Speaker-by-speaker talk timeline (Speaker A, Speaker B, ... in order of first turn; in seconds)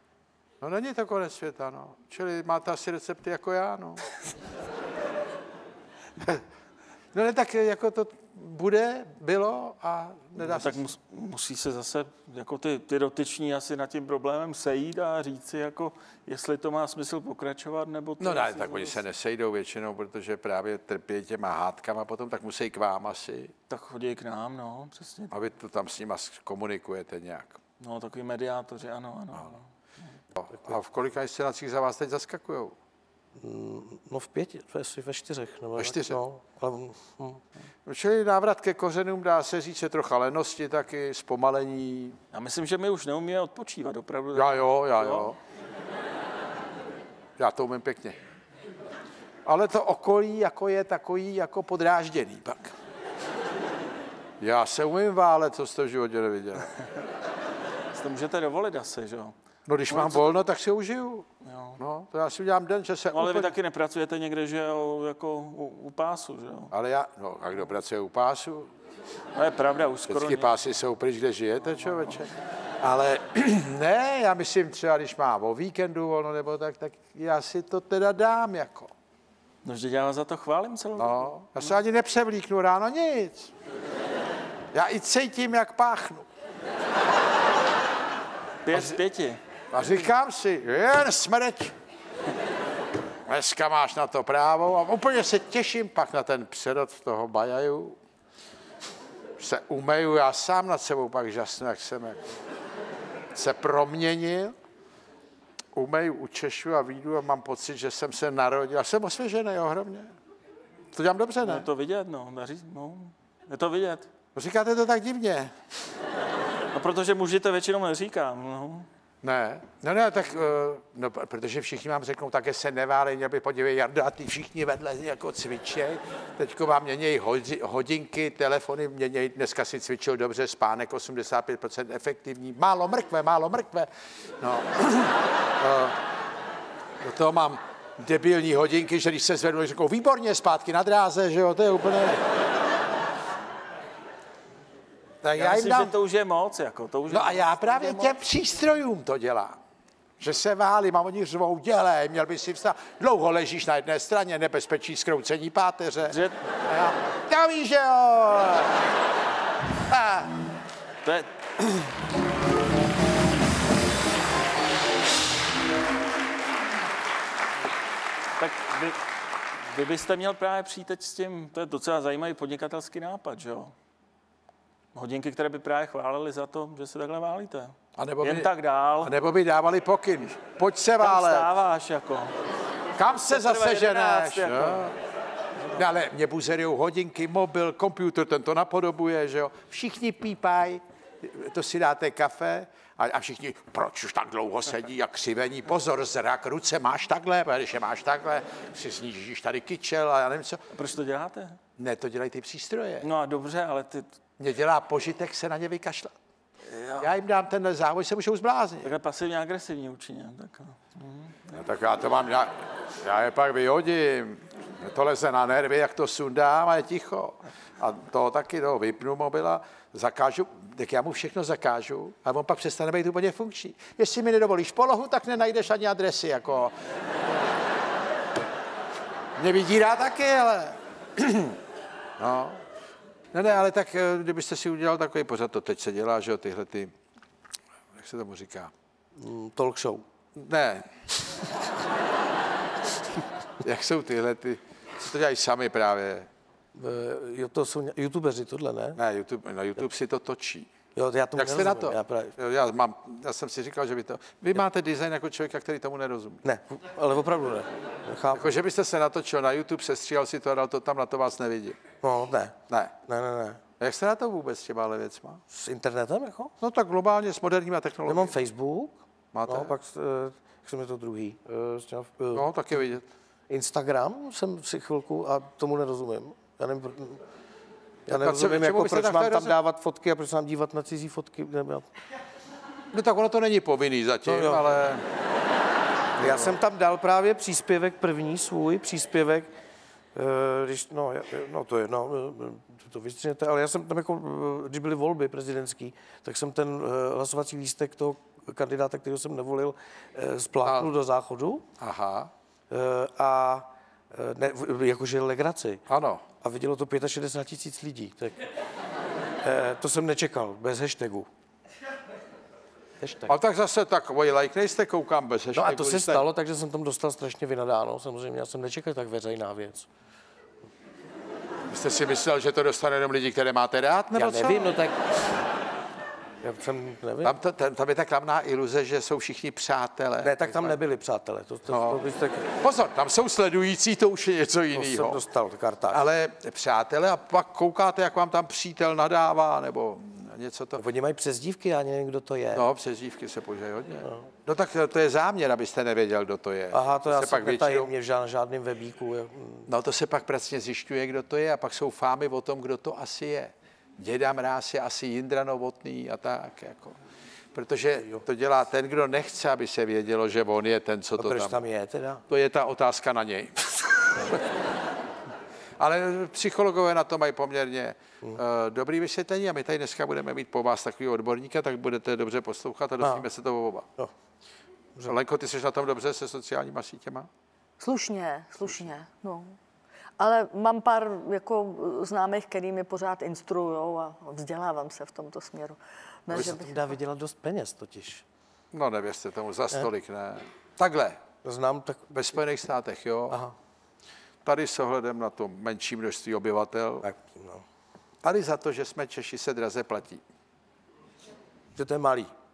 Speaker A: 0.6-4.1, 7.1-10.8, 18.2-23.5, 25.3-27.6, 30.4-32.8, 35.8-36.2, 37.9-42.2, 44.3-45.4, 47.4-48.2, 49.5-52.7, 54.4-56.8, 59.7-61.3, 61.8-63.5, 66.7-68.7, 70.1-78.9, 81.0-83.5, 84.7-86.3, 89.7-91.8, 93.3-98.0, 99.4-102.3, 103.3-104.5, 105.8-110.1, 110.9-111.7, 114.3-115.5, 119.2-136.0, 137.0-142.2, 145.2-145.9, 147.1-149.6, 150.2-158.8, 159.9-160.3, 178.0-178.5, 179.0-181.5, 183.0-184.9, 185.7-200.6, 201.8-203.1, 204.4-206.1, 207.0-208.9, 211.5-226.7, 229.4-231.6, 232.2-232.6, 233.3-236.9, 237.9-238.7, 240.4-241.0, 243.6-246.3, 249.0-250.7, 251.4-256.4, 258.3-261.8, 262.7-262.9, 263.8-265.4, 266.6-268.4, 269.3-269.7, 272.3-273.1, 278.1-279.5, 282.9-285.1, 286.2-286.6, 300.6-300.9, 301.8-302.3, 305.9-306.2, 313.3-316.2, 321.7-324.8, 327.2-330.8, 331.7-332.0, 332.5-335.2, 335.9-340.9, 342.5-347.9, 349.7-356.9, 357.5-361.6, 362.3-364.4, 365.8-373.9, 375.1-377.3, 388.7-391.2, 392.1-393.4, 394.4-397.1, 398.2-400.2
Speaker B: 10.4-19.0, 23.7-25.3, 27.8-29.6, 42.3-45.4, 57.9-59.4, 59.9-60.4, 61.4-61.8, 63.1-66.7, 69.3-70.5, 71.7-72.2, 79.6-81.7, 88.7-89.4, 111.4-114.1, 116.7-118.9, 145.3-148.1, 156.1-156.4, 161.0-161.8, 168.4-169.1, 169.6-173.7, 174.9-179.1, 181.0-182.3, 183.1-184.9, 200.7-201.6, 203.0-204.1, 206.7-207.1, 208.8-211.4
Speaker C: 33.4-37.4, 239.2-240.1, 246.8-249.0, 250.9-252.3, 256.4-258.6, 262.0-263.6, 265.5-266.5, 268.1-272.5, 273.5-277.2, 278.1-281.9, 284.2-284.7, 286.2-289.5, 290.1-301.7, 302.7-305.8, 306.4-308.5, 309.4-311.3, 313.0-313.3, 315.5-319.9, 324.1-325.2, 326.4-327.4, 330.2-332.5, 334.7-336.0, 340.8-342.7, 344.0-344.3, 346.7-349.7, 361.2-362.2, 373.0-373.3, 386.3-388.2, 391.4-392.4, 393.3-393.6, 397.0-397.6, 401.8-402.3
Speaker D: 377.8-379.6, 380.2-386.9